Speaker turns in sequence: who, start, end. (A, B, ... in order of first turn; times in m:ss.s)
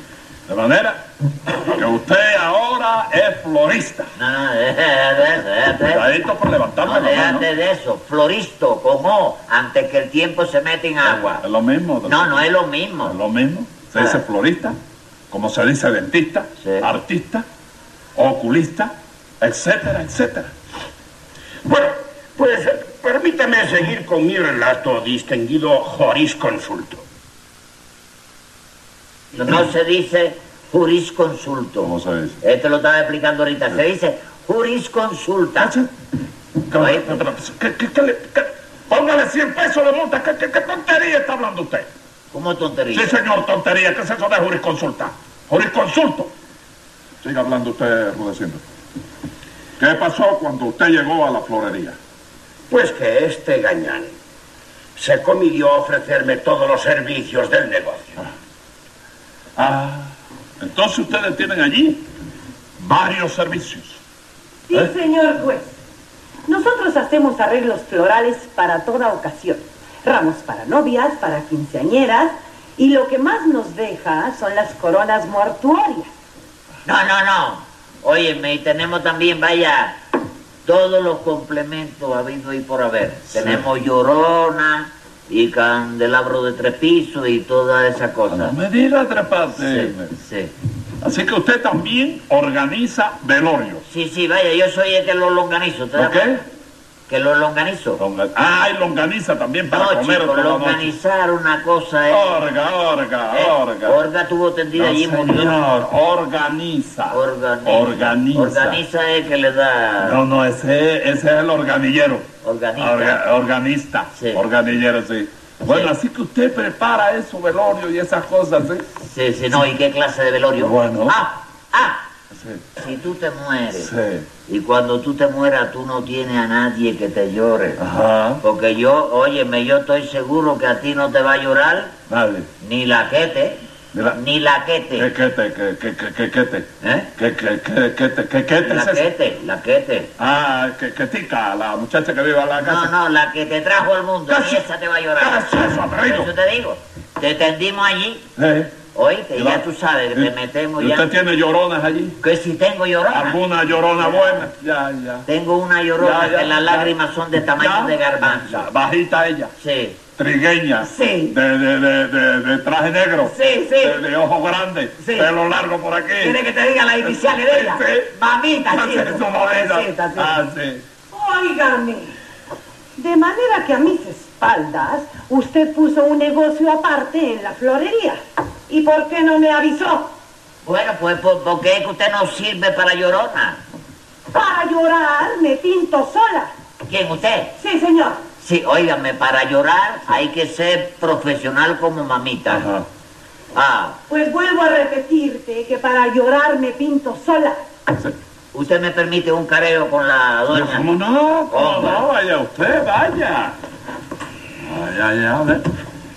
0:00.5-0:04.1 A
0:04.2-0:06.1 B
0:05.8-0:07.5 A
0:06.8-0:11.4 B
0:11.0-0:12.5 A
0:12.0-0:13.2 B
0:13.0-0:14.8 A
0:14.0-0:14.2 B
0:15.3-0:17.5 A
0:16.6-0:16.9 B
0:18.2-0:20.5 A
0:21.7-0:27.0 C
0:29.3-0:35.7 B
0:31.8-0:32.4 A
0:35.6-0:35.9 A
0:36.7-0:41.9 A
0:36.8-0:37.2 B
0:42.3-0:43.2 B
0:42.9-0:46.3 A
0:47.2-0:48.6 A
0:49.8-0:52.0 A
0:52.7-0:54.1 C
0:55.0-0:58.2 C
0:59.6-1:02.1 A
1:02.8-1:04.0 A
1:04.7-1:05.8 D
1:06.5-1:16.1 D
1:16.8-1:20.0 B
1:20.6-1:28.6 B
1:23.3-1:23.6 A
1:28.3-1:30.2 A
1:29.6-1:30.5 B
1:31.0-1:33.8 A
1:33.9-1:36.4 B
1:36.0-1:36.4 A
1:37.1-1:38.0 B
1:38.0-1:40.9 A
1:39.7-1:42.4 B
1:42.1-1:44.0 A
1:43.3-1:45.6 B
1:44.7-1:48.8 A
1:47.1-1:50.2 B
1:50.0-1:58.9 A
1:52.4-1:53.2 B
1:54.1-1:54.4 B
1:55.6-1:55.9 B
1:59.0-2:02.1 B
2:00.6-2:01.2 A
2:02.3-2:02.6 A
2:02.8-2:03.9 B
2:03.7-2:04.3 A
2:04.5-2:07.8 B
2:07.8-2:08.4 A
2:08.4-2:12.0 B
2:12.1-2:12.5 A
2:12.6-2:15.1 B
2:13.9-2:14.2 A
2:15.0-2:19.1 A
2:16.8-2:17.1 B
2:18.6-2:20.1 B
2:20.2-2:22.9 A
2:22.6-2:28.3 B
2:24.3-2:24.6 A
2:25.2-2:26.3 A
2:28.4-2:28.8 A
2:28.9-2:31.1 B
2:29.3-2:32.2 A
2:32.2-2:33.4 B
2:33.1-2:35.3 A
2:34.0-2:34.4 B
2:35.3-2:38.7 B
2:36.0-2:37.0 A
2:37.6-2:39.5 A
2:39.6-2:40.0 B
2:40.2-2:46.4 A
2:40.8-2:41.3 B
2:43.2-2:44.0 B
2:45.0-2:45.3 B
2:46.2-2:50.3 B
2:47.0-2:50.8 A
2:51.1-2:52.1 D
2:53.0-3:00.1 D
3:00.6-3:03.6 B
3:04.3-3:06.5 D
3:06.9-3:07.6 B
3:07.6-3:08.2 D
3:08.4-3:12.7 B
3:12.5-3:12.9 A
3:13.5-3:14.0 B
3:14.1-3:17.6 D
3:18.5-3:20.9 B
3:20.5-3:23.6 A
3:21.5-3:22.0 B
3:24.6-3:25.7 A